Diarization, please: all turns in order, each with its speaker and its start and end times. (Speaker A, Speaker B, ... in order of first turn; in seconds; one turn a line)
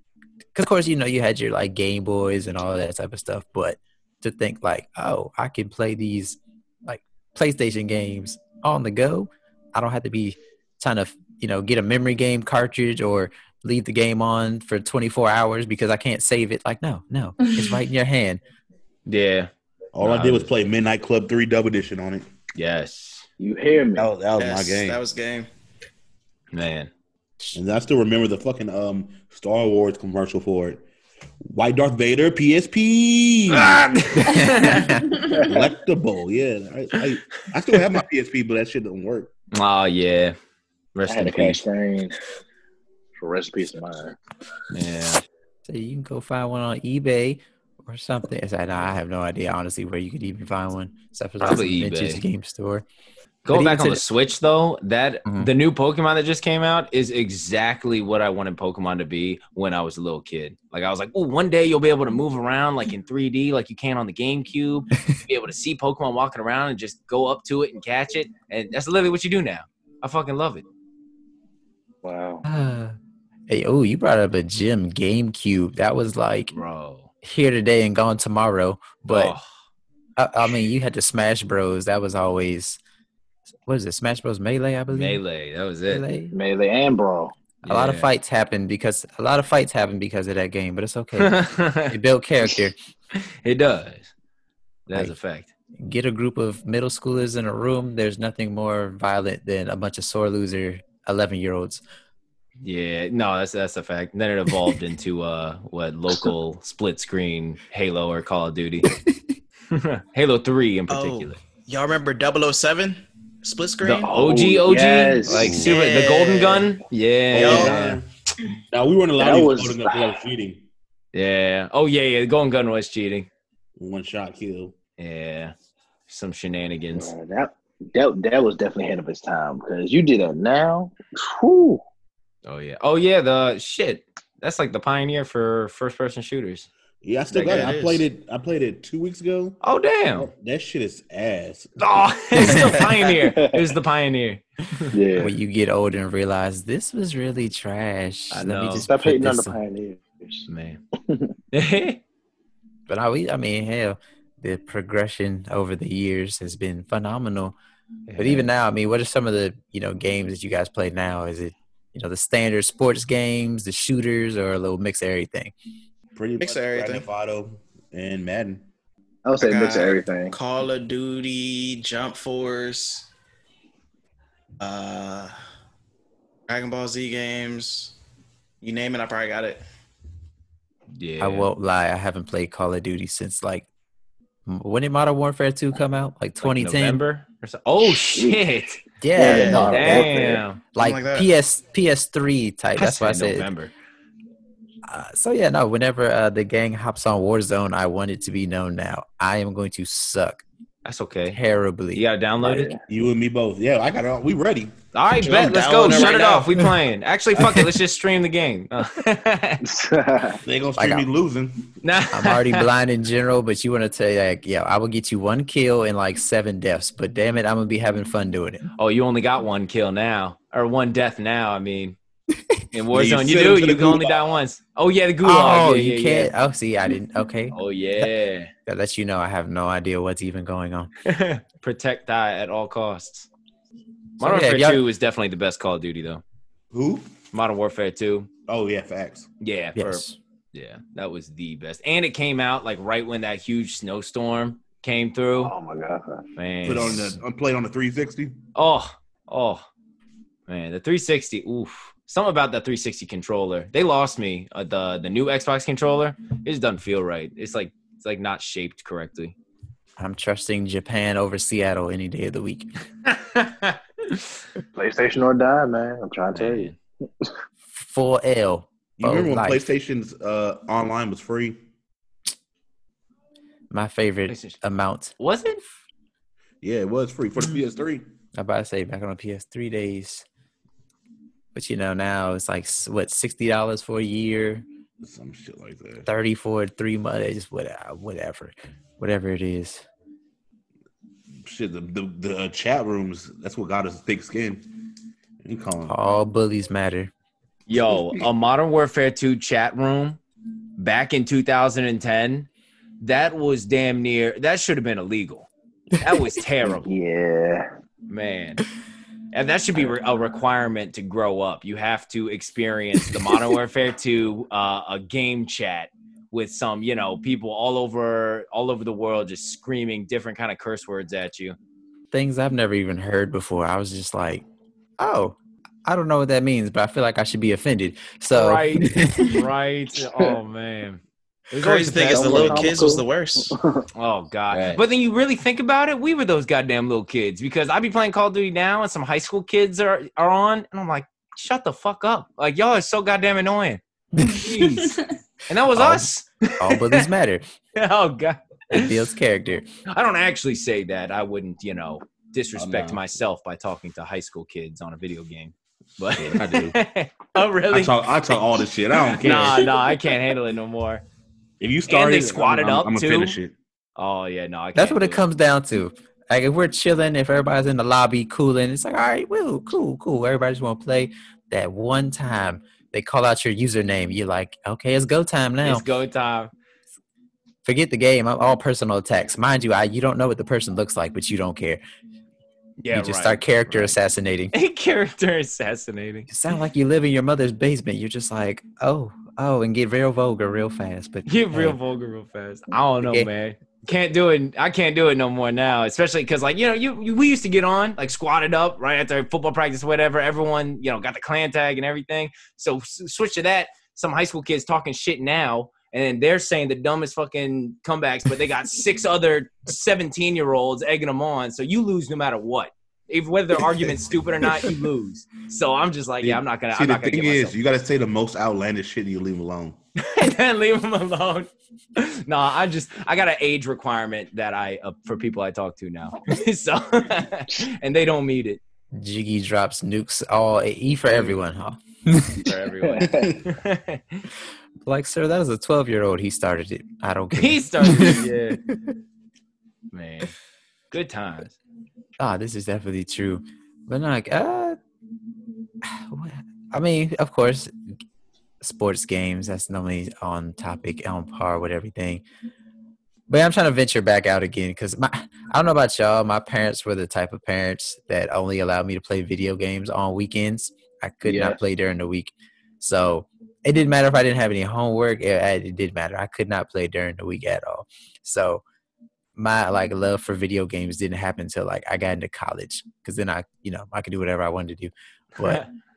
Speaker A: 0.5-18.4
Speaker B: 19.1-19.5
Speaker C: 19.9-22.3
Speaker B: 20.0-20.5
Speaker B: 22.5-23.3
Speaker D: 23.4-24.1
Speaker C: 24.0-25.0
Speaker E: 24.4-25.5
Speaker B: 26.5-26.9
Speaker C: 27.5-30.8
Speaker C: 31.4-34.6
Speaker B: 33.5-34.9
Speaker A: 34.4-35.1
Speaker C: 35.4-39.3
Speaker B: 39.5-40.4
Speaker B: 40.9-41.6
Speaker D: 41.0-42.1
Speaker D: 43.2-44.2
Speaker B: 44.7-45.2
Speaker A: 45.6-52.8
Speaker B: 51.4-52.2
Speaker B: 53.4-70.6
Speaker A: 53.5-54.0
Speaker A: 55.2-55.5
Speaker D: 72.0-72.4
Speaker A: 72.5-73.0
Speaker A: 73.5-76.5
Speaker B: 76.5-77.1
Speaker A: 77.2-79.3
Speaker B: 79.0-79.4
Speaker A: 80.2-82.8
Speaker A: 83.7-85.2
Speaker B: 84.9-86.0
Speaker A: 85.8-86.3
Speaker D: 86.3-87.3
Speaker B: 87.6-88.1
Speaker A: 87.7-92.7
Speaker B: 91.2-91.9
Speaker B: 93.1-94.1
Speaker B: 94.9-95.5
Speaker A: 95.7-101.8
Speaker B: 102.6-108.9
Speaker B: 109.7-111.4
Speaker E: 110.9-114.1
Speaker B: 113.8-118.0
Speaker D: 114.0-115.6
Speaker C: 115.3-115.7
Speaker E: 115.5-116.7
Speaker C: 117.3-118.1
Speaker E: 117.3-117.8
Speaker C: 118.7-120.6
Speaker D: 119.2-120.2
Speaker B: 121.1-123.3
Speaker C: 123.8-124.7
Speaker B: 125.0-125.5
Speaker B: 126.1-127.1
Speaker D: 126.9-131.8
Speaker B: 132.4-136.7
Speaker C: 137.0-139.6
Speaker E: 137.3-138.1
Speaker B: 137.3-137.7
Speaker B: 139.6-140.3
Speaker C: 140.2-141.7
Speaker B: 141.8-144.9
Speaker D: 143.1-143.7
Speaker D: 144.9-145.3
Speaker A: 145.2-149.6
Speaker B: 148.3-148.9
Speaker D: 148.8-150.5
Speaker B: 150.5-150.8
Speaker B: 151.5-152.0
Speaker A: 152.9-157.6
Speaker B: 158.1-158.5
Speaker A: 158.2-165.5
Speaker C: 166.1-168.6
Speaker E: 166.4-167.1
Speaker D: 169.2-170.3
Speaker E: 169.4-173.1
Speaker E: 174.6-175.3
Speaker E: 176.5-177.9
Speaker E: 178.6-179.6
Speaker B: 180.9-181.5
Speaker A: 181.2-183.7
Speaker A: 184.4-187.0
Speaker B: 186.4-188.8
Speaker D: 187.8-188.5
Speaker A: 189.0-190.1
Speaker E: 189.1-190.1
Speaker D: 189.2-190.4
Speaker B: 189.7-190.6
Speaker A: 190.7-193.5
Speaker E: 190.8-191.3
Speaker B: 192.8-193.7
Speaker A: 194.8-200.4
Speaker B: 200.8-201.4
Speaker A: 201.3-202.0
Speaker B: 201.9-202.7
Speaker D: 202.4-202.8
Speaker C: 202.9-204.7
Speaker B: 204.9-209.7
Speaker E: 205.2-206.7
Speaker C: 205.3-205.9
Speaker D: 209.6-210.4
Speaker C: 210.4-211.7
Speaker A: 210.8-211.0
Speaker B: 211.8-212.7
Speaker A: 212.1-218.6
Speaker B: 218.8-222.0
Speaker B: 222.7-226.3
Speaker C: 222.9-224.3
Speaker A: 225.2-228.1
Speaker B: 227.5-228.5
Speaker A: 228.7-230.9
Speaker B: 231.0-233.3
Speaker A: 234.2-234.8
Speaker B: 234.2-236.2
Speaker C: 236.7-237.1
Speaker B: 237.3-238.3
Speaker C: 238.5-239.3
Speaker B: 239.4-245.5
Speaker A: 239.8-240.2
Speaker D: 245.4-246.2
Speaker B: 246.3-247.2
Speaker C: 246.6-248.4
Speaker B: 248.5-249.7
Speaker B: 250.5-259.3
Speaker A: 260.0-262.7
Speaker B: 263.0-264.2
Speaker D: 264.7-267.3
Speaker B: 266.3-266.8
Speaker A: 267.7-269.6
Speaker C: 269.0-271.6
Speaker A: 273.7-275.1
Speaker B: 274.3-274.6
Speaker B: 275.2-275.6
Speaker C: 276.6-278.0
Speaker A: 278.3-280.2
Speaker A: 281.5-284.6
Speaker C: 285.0-286.1
Speaker A: 286.1-289.8
Speaker C: 291.4-294.7
Speaker C: 295.4-295.9
Speaker A: 295.9-297.1
Speaker B: 297.7-300.2
Speaker B: 300.8-302.5
Speaker B: 303.0-306.9
Speaker D: 306.9-307.7
Speaker B: 308.1-308.6
Speaker B: 309.3-321.6
Speaker A: 322.1-324.4
Speaker A: 325.0-329.4
Speaker B: 328.3-332.9
Speaker E: 331.6-333.5
Speaker D: 332.1-333.8
Speaker B: 333.9-347.1
Speaker D: 334.5-334.8
Speaker A: 344.2-344.4
Speaker A: 345.7-346.1
Speaker A: 346.6-347.4
Speaker B: 347.8-348.9
Speaker A: 348.7-349.7
Speaker B: 349.9-361.0
Speaker C: 352.6-353.1
Speaker C: 356.2-356.8
Speaker C: 357.7-359.7
Speaker C: 361.6-363.5
Speaker B: 361.9-363.4
Speaker B: 363.9-365.2
Speaker A: 364.7-375.8
Speaker B: 375.6-376.5
Speaker A: 377.6-381.8
Speaker B: 382.8-384.0
Speaker A: 382.9-384.5
Speaker B: 384.5-386.3
Speaker A: 386.3-391.8
Speaker B: 391.3-417.6
Speaker A: 393.0-393.3
Speaker C: 416.2-419.8
Speaker B: 420.0-428.6
Speaker A: 428.9-432.4
Speaker B: 432.4-434.2
Speaker D: 432.8-433.4
Speaker A: 434.8-438.3
Speaker B: 437.3-438.6
Speaker B: 439.9-440.3
Speaker B: 440.9-441.6
Speaker A: 442.2-444.8
Speaker A: 445.8-447.7
Speaker A: 448.6-452.2
Speaker A: 453.3-468.6
Speaker D: 461.2-461.6
Speaker A: 469.4-475.6
Speaker B: 475.4-475.7